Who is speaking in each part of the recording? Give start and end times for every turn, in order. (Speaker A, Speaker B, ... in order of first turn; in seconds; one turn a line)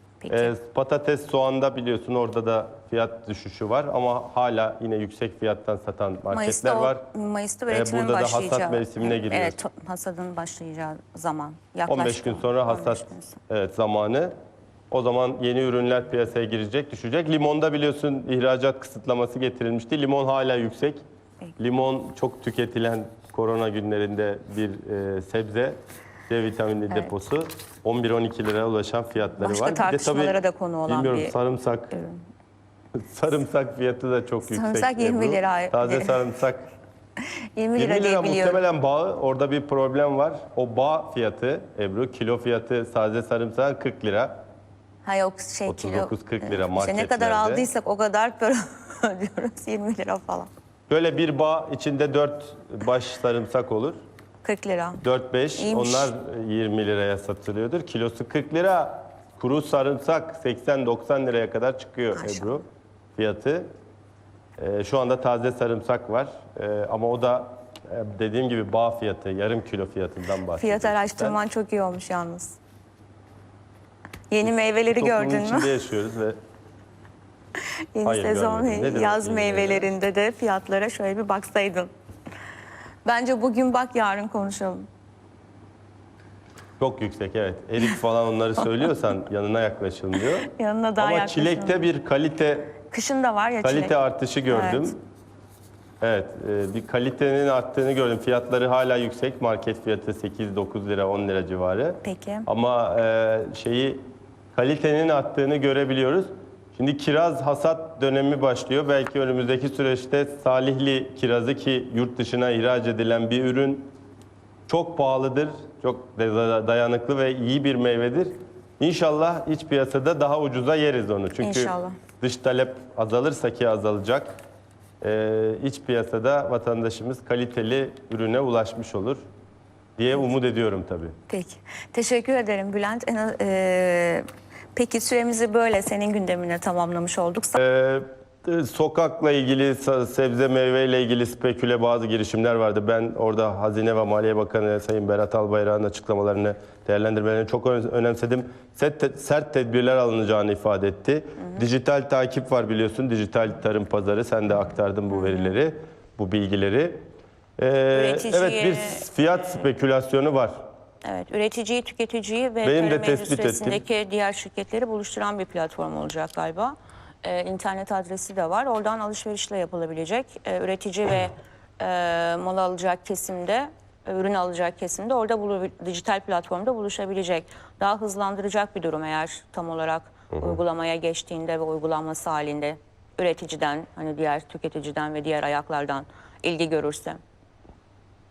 Speaker A: 0.2-0.5
Speaker B: 0.3-7.0
Speaker A: 6.3-13.4
Speaker B: 7.7-9.6
Speaker B: 11.9-14.3
Speaker B: 14.9-21.0
Speaker B: 21.6-30.4
Speaker A: 29.4-31.3
Speaker B: 30.9-31.9
Speaker A: 31.9-32.2
Speaker B: 32.9-36.7
Speaker A: 34.5-36.2
Speaker A: 37.5-38.6
Speaker B: 37.8-44.3
Speaker A: 45.0-50.5
Speaker B: 45.7-47.7
Speaker B: 50.9-54.0
Speaker A: 54.4-55.0
Speaker B: 55.0-62.6
Speaker A: 55.6-56.1
Speaker A: 62.1-62.5
Speaker B: 63.1-63.7
Speaker B: 64.6-71.4
Speaker A: 70.5-72.6
Speaker A: 74.3-75.7
Speaker B: 74.4-76.4
Speaker A: 77.9-81.9
Speaker B: 78.0-79.9
Speaker A: 83.0-84.9
Speaker B: 86.8-90.5
Speaker A: 90.4-91.9
Speaker B: 91.0-92.8
Speaker A: 92.9-94.9
Speaker B: 93.6-95.0
Speaker B: 96.0-104.0
Speaker A: 102.0-102.5
Speaker B: 104.5-113.9
Speaker B: 114.7-124.4
Speaker A: 121.4-122.0
Speaker B: 125.0-129.2
Speaker B: 130.0-131.1
Speaker A: 131.3-137.6
Speaker B: 137.6-157.0
Speaker A: 155.1-155.5
Speaker B: 157.6-160.5
Speaker A: 157.9-159.0
Speaker A: 161.0-187.2
Speaker B: 162.6-163.8
Speaker B: 180.3-180.6